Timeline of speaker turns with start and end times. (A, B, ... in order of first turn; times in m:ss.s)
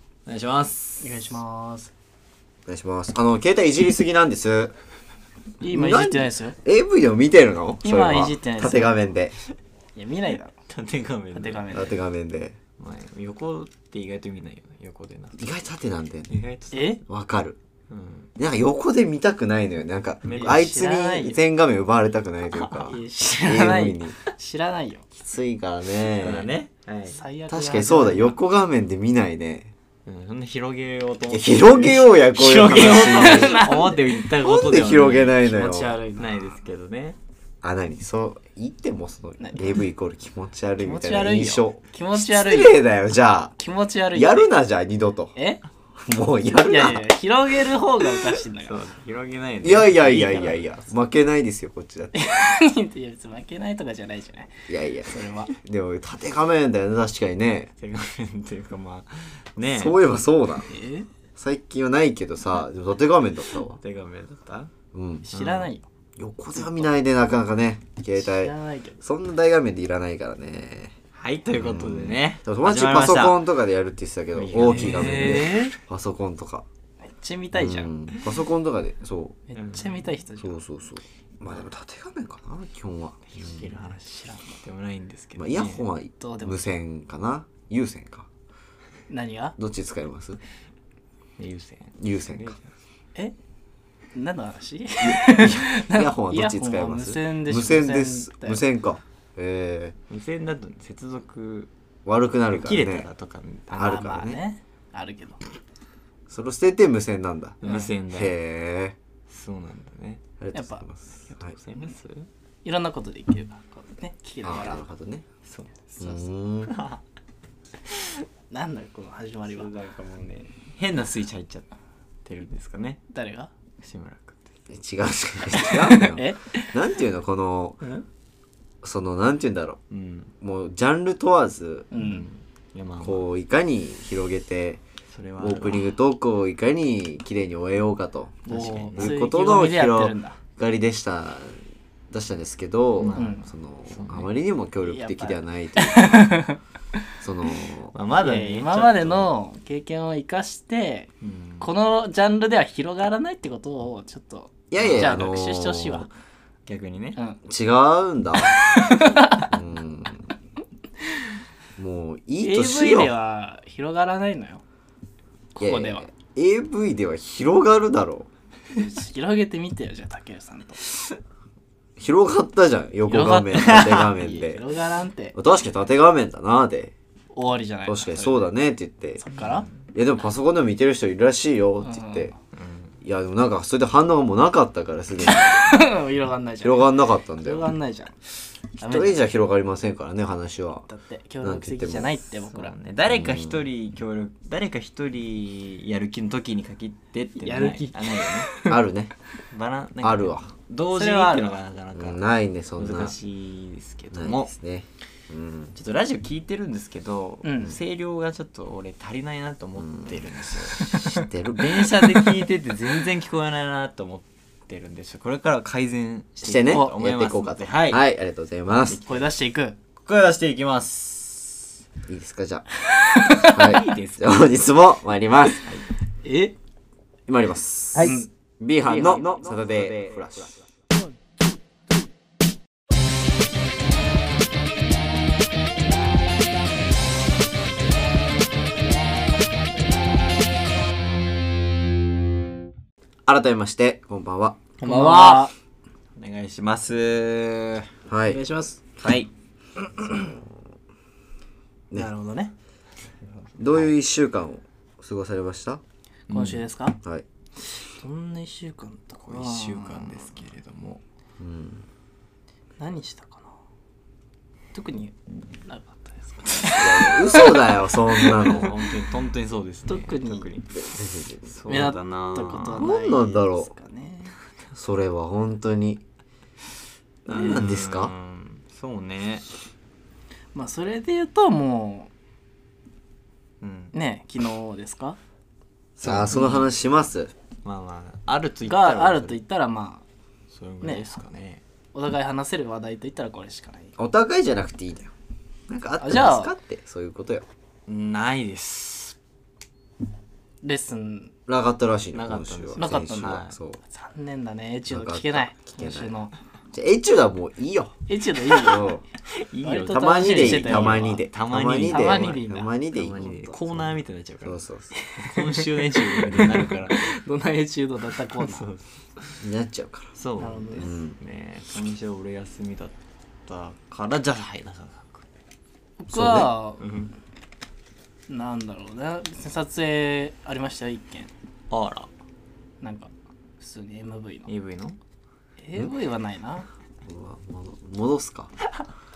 0:00.3-0:01.3 A
0:01.0-0:01.9 B
0:02.6-0:04.7 C
0:05.6-0:06.6 B
0:05.6-0:09.3 C
0:07.8-0:09.0 B
0:10.0-0:10.5 B
0:10.7-0:11.9 A
0:11.3-0:12.0 B
0:11.7-0:12.6 C
0:12.8-0:15.4 A
0:15.4-0:16.3 C
0:16.3-0:16.9 A
0:16.7-0:17.0 B
0:17.0-0:17.6 C
0:17.9-0:18.3 A
0:18.4-0:24.2 C
0:20.2-0:20.6 A
0:20.3-0:21.4 B
0:22.5-0:22.9 A
0:22.8-0:25.1 B
0:25.1-0:26.5 C
0:26.2-0:27.2 A
0:27.1-0:28.4 B
0:27.5-0:29.7 C
0:30.0-0:35.5 A
0:31.3-0:33.7 C
0:32.6-0:34.1 B
0:34.3-0:36.0 C
0:35.3-0:36.6 B
0:36.2-0:37.2 A
0:37.6-0:43.5 C
0:39.4-0:39.8 B
0:40.8-0:42.8 B
0:43.6-0:44.5 B
0:44.1-0:45.3 C
0:45.4-0:45.6 B
0:46.0-0:47.0 C
0:46.6-0:48.8 B
0:48.6-0:50.3 A
0:49.6-0:52.2 C
0:50.0-0:50.6 B
0:52.1-0:55.5 B
0:54.7-0:57.7 C
0:57.8-1:00.2 A
0:59.6-1:00.7 C
1:00.7-1:01.1 B
1:01.4-1:03.8 C
1:03.8-1:04.7 A
1:04.9-1:05.3 C
1:05.3-1:05.8 B
1:05.3-1:05.7 A
1:06.2-1:11.0 C
1:08.2-1:09.0 B
1:11.1-1:13.4 A
1:11.5-1:16.7 C
1:14.3-1:15.6 A
1:14.7-1:15.8 B
1:17.1-1:17.9 B
1:17.5-1:19.4 C
1:19.5-1:20.6 B
1:19.6-1:20.1 A
1:20.4-1:23.7 C
1:23.3-1:25.8 A
1:23.6-1:24.6 B
1:25.4-1:28.3 C
1:26.2-1:26.8 B
1:29.1-1:29.6 B
1:29.6-1:30.4 C
1:31.4-1:32.7 A
1:32.0-1:32.5 C
1:34.1-1:38.6 B
1:35.0-1:40.0 C
1:40.1-1:41.7 A
1:42.0-1:43.1 C
1:42.5-1:44.3 A
1:43.7-1:45.4 B
1:43.8-1:44.4 C
1:46.3-1:49.0 C
1:47.6-1:48.3 A
1:49.3-1:50.2 A
1:50.4-1:51.6 C
1:50.5-1:50.8 B
1:51.3-1:52.3 A
1:52.6-1:54.8 B
1:54.4-1:55.2 C
1:55.4-1:55.7 A
1:55.9-1:56.2 B
1:56.0-1:56.8 C
1:56.7-1:57.0 A
1:58.5-1:59.7 B
1:59.4-2:01.7 A
2:02.2-2:03.0 A
2:03.1-2:03.5 B
2:03.8-2:04.4 A
2:04.7-2:07.8 C
2:05.6-2:06.7 B
2:08.8-2:09.8 C
2:09.9-2:10.3 A
2:10.4-2:11.9 C
2:11.9-2:12.3 B
2:11.9-2:13.2 A
2:13.0-2:14.8 C
2:15.1-2:15.9 A
2:15.4-2:26.4 C
2:18.5-2:20.4 B
2:18.5-2:19.1 A
2:23.0-2:24.3 A
2:23.1-2:23.5 B
2:24.8-2:27.0 B
2:27.2-2:27.9 C
2:27.9-2:29.3 A
2:28.2-2:31.1 B
2:31.2-2:31.7 A
2:31.6-2:36.1 B
2:34.7-2:36.1 C
2:34.7-2:35.2 A
2:36.7-2:37.2 A
2:37.4-2:38.7 C
2:38.5-2:39.5 B
2:39.5-2:40.3 C
2:41.8-2:43.1 C
2:42.4-2:44.6 B
2:45.5-2:46.1 B
2:45.6-2:48.3 C
2:48.7-2:50.9 B
2:52.0-2:54.7 C
2:53.1-2:55.3 B
2:53.7-2:54.0 A
2:55.3-2:56.9 C
2:57.3-2:58.5 B
2:57.8-2:59.2 C
2:59.2-2:59.7 B
2:59.4-2:59.7 A
2:59.9-3:02.3 C
3:01.8-3:02.3 B
3:02.5-3:02.9 A
3:03.0-3:05.8 C
3:05.2-3:08.2 B
3:06.6-3:07.8 C
3:08.8-3:09.2 B
3:08.8-3:10.9 C
3:10.9-3:12.7 B
3:11.4-3:12.2 C
3:12.5-3:18.6 A
3:13.1-3:13.6 C
3:17.3-3:18.8 B
3:18.6-3:19.1 C
3:19.5-3:22.2 A
3:20.0-3:20.5 C
3:20.9-3:21.6 B
3:21.9-3:23.1 C
3:22.8-3:24.5 A
3:24.1-3:25.7 C
3:25.7-3:38.0 A
3:27.4-3:27.8 B
3:29.8-3:31.9 C
3:36.4-3:39.0 C
3:36.7-3:36.9 B
3:38.8-3:39.3 A
3:39.0-3:39.8 B
3:40.0-3:41.8 A
3:42.1-3:42.7 C
3:42.9-3:43.7 B
3:43.3-3:44.5 A
3:43.4-3:45.7 C
3:46.2-3:46.5 B
3:47.3-3:50.6 C
3:48.0-3:48.3 B
3:49.0-3:50.1 A
4:03.3-4:04.6 C
4:04.8-4:05.5 A
4:04.8-4:05.5 B
4:06.2-4:07.9 A
4:08.1-4:08.4 C
4:08.3-4:08.8 B
4:09.0-4:09.3 A
4:09.8-4:10.3 B
4:11.9-4:12.5 B
4:13.6-4:15.8 C
4:16.3-4:16.6 A
4:16.3-4:17.0 B
4:17.7-4:20.5 B
4:19.3-4:21.0 A
4:21.4-4:21.9 C
4:22.8-4:23.5 B
4:24.7-4:25.2 B
4:25.7-4:28.7 B
4:26.8-4:28.8 C
4:28.4-4:30.7 A
4:29.9-4:30.5 B
4:30.7-4:31.6 C
4:31.5-4:32.9 A
4:31.7-4:34.4 B
4:32.8-4:33.7 C
4:34.8-4:36.0 C
4:37.2-4:38.1 C
4:37.3-4:39.4 A
4:40.6-4:42.1 B
4:43.6-4:43.9 A
4:43.9-4:45.2 B
4:46.0-4:47.3 C
4:46.1-4:46.6 A
4:46.3-4:46.6 B
4:47.6-4:49.4 A
4:48.7-4:50.0 B
4:50.5-4:51.6 A
4:50.8-4:51.2 B
4:51.9-4:53.9 B
4:54.0-4:55.1 C
4:55.7-4:57.5 C
4:56.0-4:56.5 B
4:57.9-4:59.2 A
5:00.6-5:01.3 B
5:01.5-5:03.8 C
5:02.1-5:03.6 A
5:02.8-5:06.3 B
5:04.9-5:06.1 C
5:06.7-5:08.0 C
5:08.1-5:08.9 B
5:08.5-5:09.0 C
5:09.4-5:12.4 A
5:09.6-5:11.2 B
5:09.9-5:13.9 C
5:11.8-5:12.7 B
5:12.9-5:17.1 A
5:13.3-5:13.5 B
5:14.4-5:14.9 C
5:15.0-5:18.7 B
5:18.2-5:19.4 A
5:19.4-5:20.2 C
5:20.2-5:25.2 A
5:20.4-5:20.9 B
5:20.8-5:21.2 C
5:26.0-5:26.9 B
5:26.1-5:26.5 C
5:26.8-5:27.1 A
5:28.3-5:31.3 B
5:31.7-5:32.1 A
5:32.8-5:34.5 B
5:34.5-5:35.0 A
5:35.6-5:36.7 B
5:37.0-5:38.5 C